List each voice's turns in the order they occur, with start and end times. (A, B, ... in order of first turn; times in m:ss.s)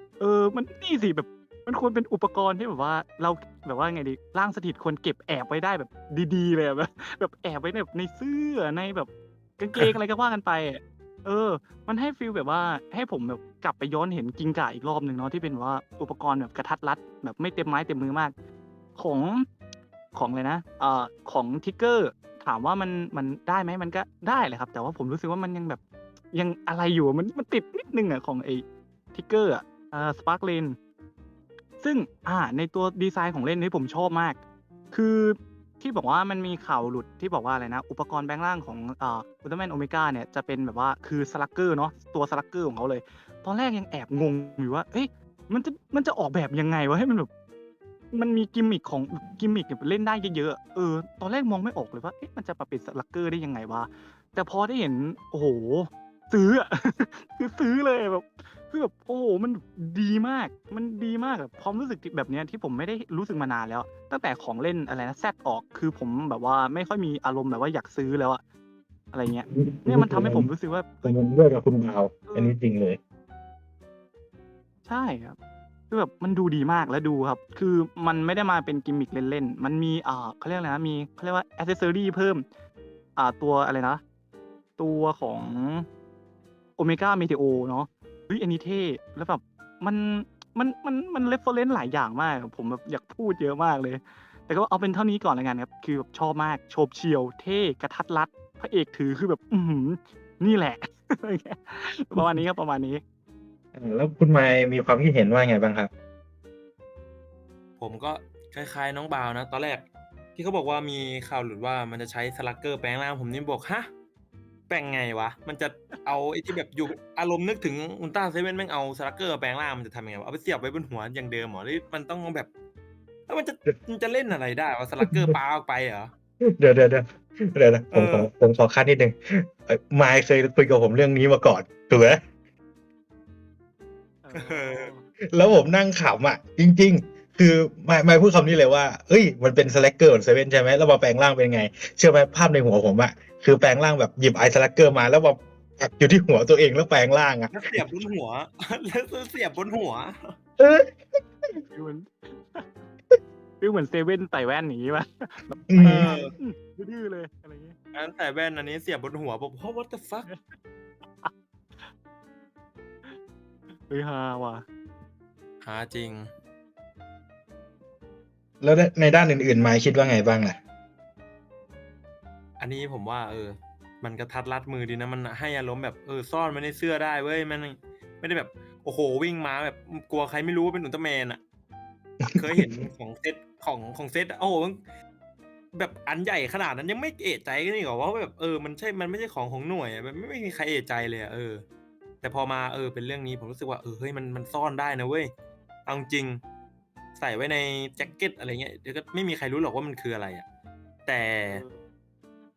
0:00.2-0:18.3 A
0:19.0-0:19.5 A
0:20.1-0:25.8 A
0:26.3-0:30.8 A
0:31.8-0:34.4 A
0:34.9-0:47.3 A
0:48.1-1:08.4 A
1:09.1-1:11.1 A
1:09.5-1:10.5 B
1:11.0-1:13.0 B
1:12.2-1:12.6 A
1:14.8-1:15.4 A
1:15.9-1:22.4 A
1:23.2-1:24.0 A
1:24.8-1:25.9 A
1:26.8-1:43.0 A
1:43.7-1:45.9 B
1:47.8-1:49.8 C
1:50.4-1:53.9 C
1:54.7-2:02.5 C
2:03.3-2:06.1 C
2:05.0-2:05.4 B
2:06.4-2:12.2 B
2:07.9-2:08.3 C
2:14.2-2:15.1 A
2:14.3-2:14.9 C
2:15.3-2:27.6 B
2:27.5-2:30.3 C
2:30.6-2:30.9 B
2:31.7-2:32.7 A
2:33.6-2:37.8 A
2:35.7-2:36.1 B
2:35.8-2:36.3 C
2:37.9-2:40.3 C
2:40.3-2:40.6 A
2:41.2-2:41.9 A
2:43.9-2:44.6 A
2:45.6-2:46.3 C
2:48.6-2:50.6 B
2:52.6-3:01.4 C
3:02.2-3:02.9 B
3:02.3-3:04.8 C
3:05.7-3:11.6 C
3:12.2-3:15.3 C
3:15.8-3:16.4 C
3:17.2-3:20.4 C
3:21.0-3:21.6 C
3:21.5-3:21.8 A